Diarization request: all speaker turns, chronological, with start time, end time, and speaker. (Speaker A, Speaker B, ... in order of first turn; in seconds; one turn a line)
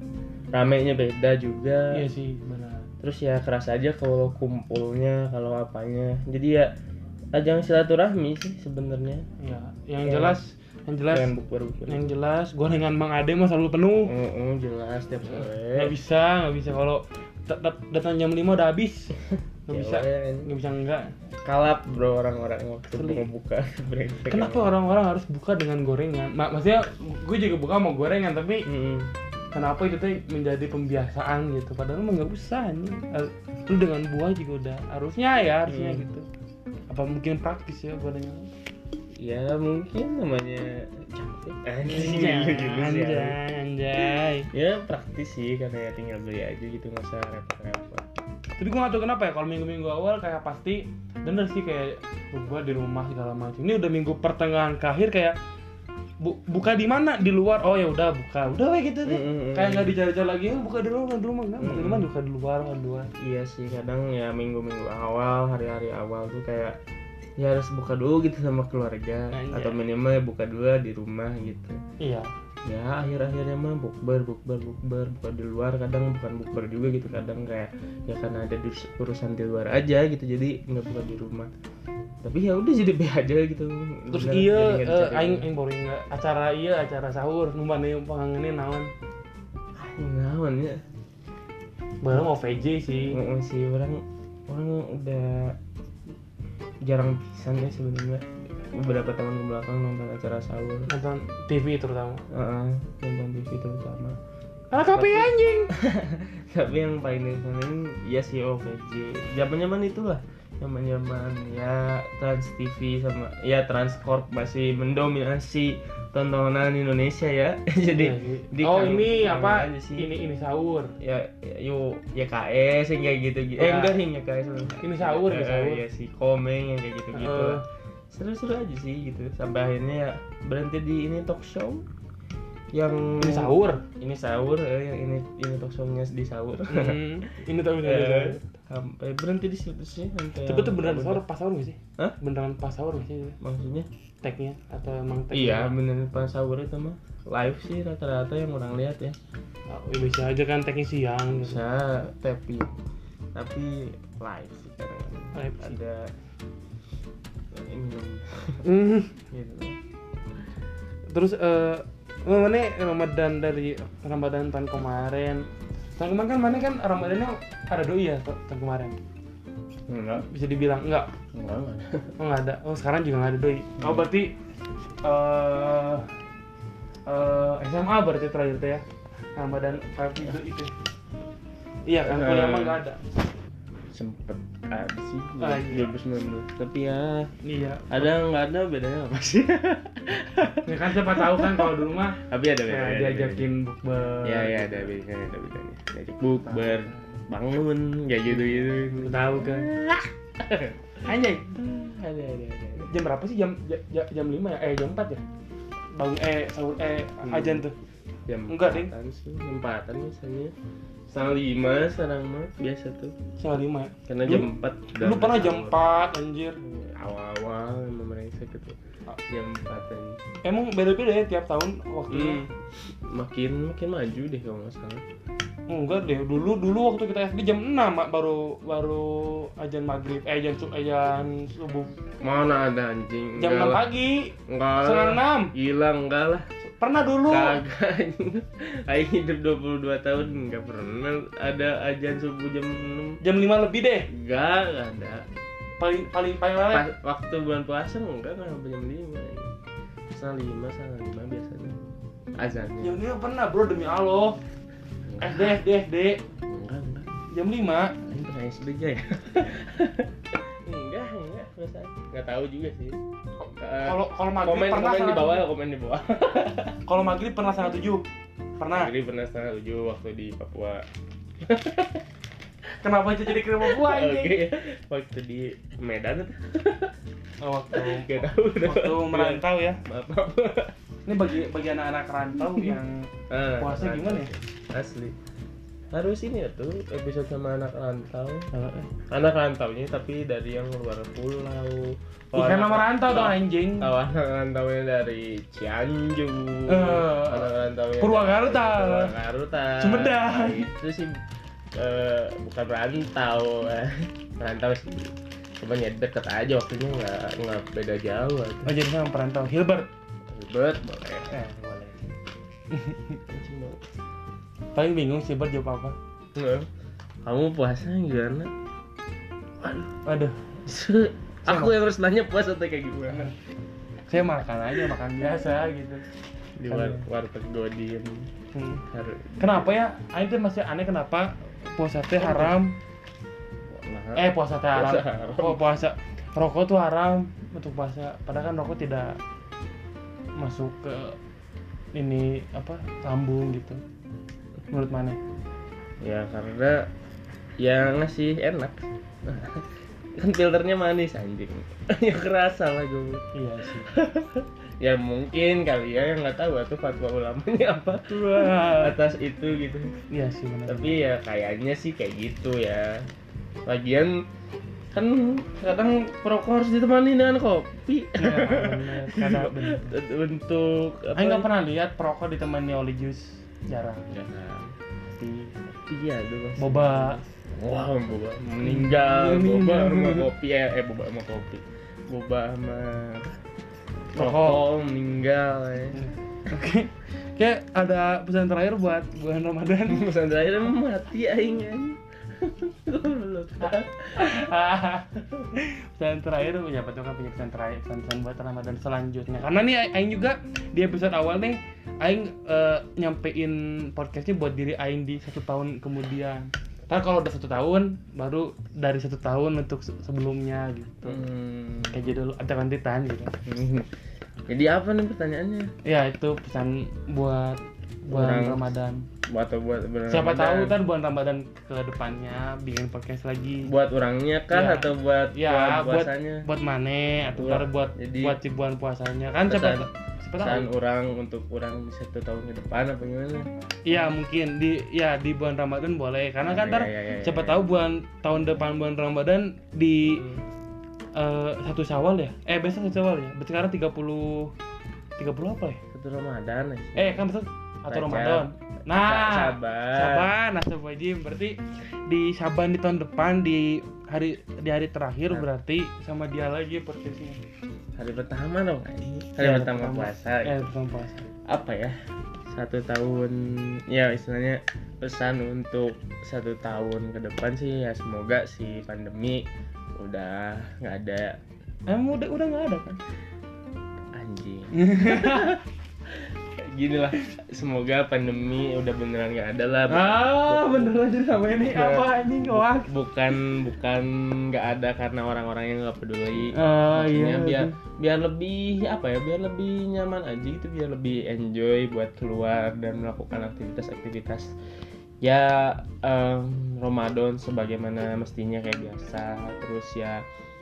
Speaker A: 0.5-2.0
Speaker B: 1.9-2.9
Speaker A: 3.0-6.7
Speaker A: 7.3-9.3
Speaker B: 9.4-11.3
Speaker A: 10.0-10.4
Speaker A: 11.1-12.0
Speaker B: 11.9-14.1
Speaker A: 14.0-15.9
Speaker B: 15.3-19.1
Speaker B: 19.7-21.1
Speaker A: 19.7-20.5
Speaker A: 21.4-24.7
Speaker B: 22.9-23.2
Speaker B: 24.3-28.7
Speaker A: 28.6-29.1
Speaker B: 29.5-36.2
Speaker A: 35.6-36.0
Speaker B: 36.9-38.5
Speaker A: 39.2-43.4
Speaker B: 41.8-44.5
Speaker A: 44.5-48.0
Speaker B: 48.6-55.4
Speaker B: 56.2-63.1
Speaker A: 59.0-59.9
Speaker A: 61.6-62.1
Speaker A: 63.2-66.8
Speaker A: 67.4-71.8
Speaker B: 69.3-69.8
Speaker B: 72.0-72.3
Speaker A: 72.7-81.5
Speaker A: 82.2-85.5
Speaker B: 84.1-88.9
Speaker A: 89.8-90.8
Speaker B: 92.0-93.2
Speaker A: 93.1-95.6
Speaker A: 96.8-100.9
Speaker B: 100.9-102.2
Speaker A: 102.3-104.2
Speaker B: 104.7-105.7
Speaker A: 104.8-120.1
Speaker B: 117.9-120.9
Speaker A: 121.0-131.8
Speaker B: 123.6-124.0
Speaker B: 124.8-125.8
Speaker B: 127.1-127.6
Speaker A: 132.7-137.0
Speaker B: 133.2-133.8
Speaker B: 136.7-138.4
Speaker A: 137.8-141.2
Speaker B: 140.4-143.4
Speaker A: 143.4-143.9
Speaker B: 144.2-145.7
Speaker A: 145.3-149.2
Speaker B: 149.7-151.6
Speaker A: 151.3-152.7
Speaker A: 153.3-156.1
Speaker B: 155.3-155.8
Speaker A: 157.5-158.6
Speaker B: 158.6-159.1
Speaker A: 159.3-159.8
Speaker B: 161.1-165.4
Speaker B: 166.0-168.9
Speaker A: 169.9-170.3
Speaker B: 170.3-171.1
Speaker A: 171.3-172.1
Speaker B: 172.2-174.3
Speaker A: 173.8-174.1
Speaker B: 175.0-176.1
Speaker B: 177.1-178.8
Speaker B: 179.3-180.7
Speaker B: 181.9-183.0
Speaker A: 182.0-182.8
Speaker A: 183.9-187.3
Speaker B: 185.4-185.9
Speaker B: 187.4-188.1
Speaker A: 187.9-193.4
Speaker B: 190.6-194.9
Speaker A: 194.2-201.0
Speaker B: 196.5-197.0
Speaker B: 198.3-199.7
Speaker B: 201.0-201.5
Speaker A: 201.5-202.9
Speaker B: 202.8-205.2
Speaker B: 205.9-207.7
Speaker A: 207.2-207.6
Speaker A: 208.3-210.5
Speaker B: 208.5-208.9
Speaker A: 211.1-213.1
Speaker B: 213.4-216.6
Speaker A: 214.1-215.8
Speaker A: 216.6-218.8
Speaker A: 219.3-220.2
Speaker B: 220.4-222.5
Speaker A: 222.1-225.0
Speaker B: 225.7-231.9
Speaker A: 232.2-233.8
Speaker B: 233.3-235.5
Speaker A: 234.5-236.4
Speaker B: 236.8-237.6
Speaker A: 237.3-243.2
Speaker B: 243.2-244.1
Speaker A: 244.1-245.3
Speaker B: 245.8-246.9
Speaker A: 246.7-249.5
Speaker A: 250.1-253.0
Speaker B: 252.8-254.4
Speaker A: 255.1-255.6
Speaker B: 255.2-256.2
Speaker A: 256.5-257.1
Speaker B: 257.3-257.9
Speaker A: 258.0-263.0
Speaker B: 263.4-265.4
Speaker A: 263.6-266.8
Speaker B: 266.9-268.1
Speaker B: 268.6-268.9
Speaker A: 268.7-270.8
Speaker A: 271.4-272.0
Speaker B: 272.8-274.4
Speaker A: 273.4-276.9
Speaker B: 277.4-279.8
Speaker A: 277.7-280.7
Speaker B: 281.1-283.0
Speaker A: 282.5-285.1
Speaker B: 283.6-284.3
Speaker A: 285.9-288.5
Speaker B: 288.5-288.9
Speaker A: 289.1-301.2
Speaker B: 292.3-293.9
Speaker B: 296.7-299.1
Speaker B: 299.8-300.6
Speaker A: 301.8-308.7
Speaker B: 308.6-309.9
Speaker A: 310.2-312.1
Speaker B: 312.7-313.2
Speaker A: 313.3-313.8
Speaker B: 314.7-315.9
Speaker A: 316.3-316.7
Speaker A: 317.2-318.5
Speaker A: 319.6-319.9
Speaker B: 320.0-320.4
Speaker A: 320.6-323.3
Speaker B: 321.4-321.7
Speaker B: 324.1-326.0
Speaker A: 326.6-328.3
Speaker B: 326.6-327.1
Speaker B: 328.5-328.8
Speaker A: 328.9-329.7
Speaker B: 329.4-332.8
Speaker A: 332.2-332.6
Speaker A: 333.7-335.6
Speaker B: 334.1-339.2
Speaker B: 340.4-341.2
Speaker B: 341.9-343.8
Speaker B: 344.7-345.2
Speaker A: 346.0-346.9
Speaker A: 347.6-349.6
Speaker A: 350.2-353.3
Speaker B: 353.3-353.9
Speaker A: 353.9-360.0
Speaker B: 358.1-358.9
Speaker B: 360.1-361.0
Speaker A: 360.7-363.0
Speaker A: 363.6-364.2
Speaker A: 364.9-371.5
Speaker B: 368.1-370.0
Speaker B: 371.1-374.1
Speaker A: 374.1-383.3
Speaker B: 376.6-377.2
Speaker B: 378.6-380.3
Speaker B: 384.1-384.6
Speaker A: 384.1-386.0
Speaker B: 385.9-390.1
Speaker A: 389.9-394.5
Speaker B: 393.6-411.2
Speaker A: 411.0-412.0
Speaker B: 411.9-413.3
Speaker A: 413.4-413.9
Speaker A: 414.5-415.7
Speaker B: 415.8-419.0
Speaker A: 418.1-418.6
Speaker A: 419.3-420.8
Speaker B: 420.1-423.7
Speaker A: 423.6-426.4
Speaker B: 424.5-430.7
Speaker A: 427.3-428.4
Speaker A: 429.4-429.9
Speaker A: 430.4-434.1
Speaker B: 433.9-440.2
Speaker A: 436.4-437.6
Speaker A: 440.1-440.4
Speaker B: 441.1-444.5
Speaker B: 445.2-445.8
Speaker A: 445.9-447.2
Speaker B: 446.9-457.4
Speaker A: 447.9-450.3
Speaker A: 458.0-460.7
Speaker B: 459.4-461.3
Speaker A: 461.5-462.0
Speaker A: 462.5-471.4
Speaker B: 471.9-473.0
Speaker A: 474.1-481.0
Speaker B: 474.7-475.6
Speaker B: 479.9-482.9
Speaker A: 481.6-494.5
Speaker B: 486.5-487.7
Speaker A: 495.2-500.2